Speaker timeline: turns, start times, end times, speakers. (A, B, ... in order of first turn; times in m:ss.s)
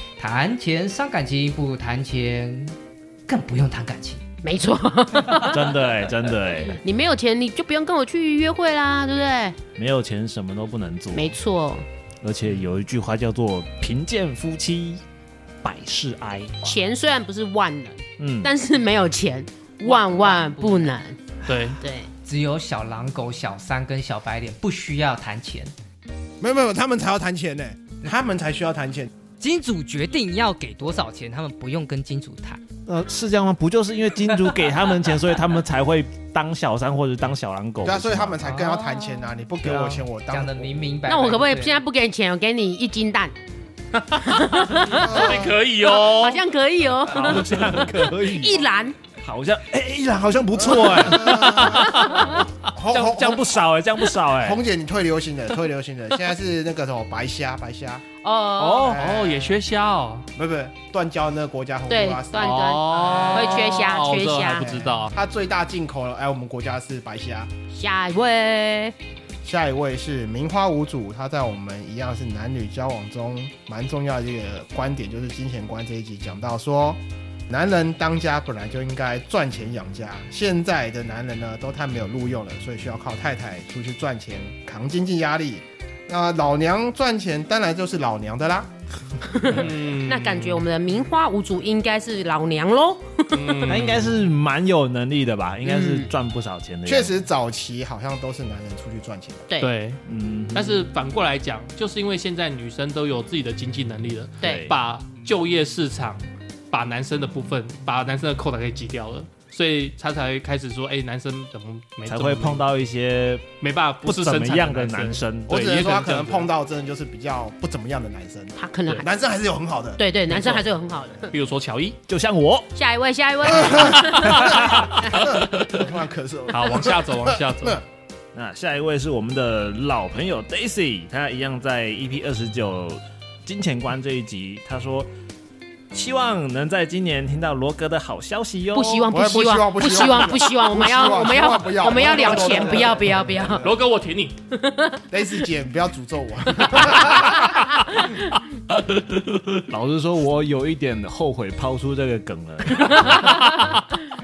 0:00.2-0:02.8 A
0:03.3-0:04.2 A
0:04.4-0:05.8 B
0:05.3-0:06.8 C
0:06.7-0:09.6 B
0:09.8-0:11.4 C
0:11.1-0:11.8 B
0:12.2-0:15.0 C
0:15.6-0:16.7 C
0:16.6-0:21.2 B
0:18.2-0:18.5 C
0:19.8-0:21.0 A
0:21.5-0:21.8 D
0:21.8-0:22.1 B
0:22.2-0:25.7 A
0:26.4-0:29.1 E
0:29.4-0:32.6 A
0:32.9-0:38.4 C
0:37.8-0:40.9 E
0:38.4-0:41.8 A
0:41.1-0:43.4 B
0:44.1-0:49.0 B
0:44.9-0:45.6 E
0:44.9-0:46.4 D
0:47.2-0:48.6 C
0:49.2-0:54.6 C
0:50.6-0:53.6 E
0:54.4-0:58.0 E
0:58.2-0:58.9 B
0:58.6-0:59.0 C
0:58.8-1:00.3 D
0:58.8-0:59.6 E
1:00.4-1:03.2 E
1:01.9-1:04.7 B
1:02.4-1:05.1 D
1:04.6-1:07.5 E
1:07.7-1:09.0 B
1:09.4-1:28.7 E
1:29.3-1:33.7 B
1:29.5-1:30.6 D
1:33.3-1:34.2 D
1:33.6-1:37.1 C
1:35.6-1:36.1 B
1:36.9-1:39.5 E
1:39.6-1:52.6 D
1:40.1-1:40.9 C
1:44.4-1:44.7 B
1:44.4-1:44.8 C
1:52.1-1:53.5 C
1:53.6-1:56.5 D
1:54.0-1:55.5 C
1:55.5-2:00.6 E
1:58.6-1:59.1 B
2:00.0-2:01.3 B
2:01.3-2:02.0 D
2:02.1-2:02.7 C
2:02.7-2:05.2 B
2:03.5-2:07.8 E
2:04.1-2:04.9 C
2:06.5-2:07.8 D
2:08.3-2:15.1 C
2:15.9-2:19.1 C
2:18.7-2:23.7 B
2:19.1-2:23.8 E
2:23.6-2:24.4 D
2:24.5-2:25.0 B
2:25.1-2:27.5 E
2:29.5-2:33.8 C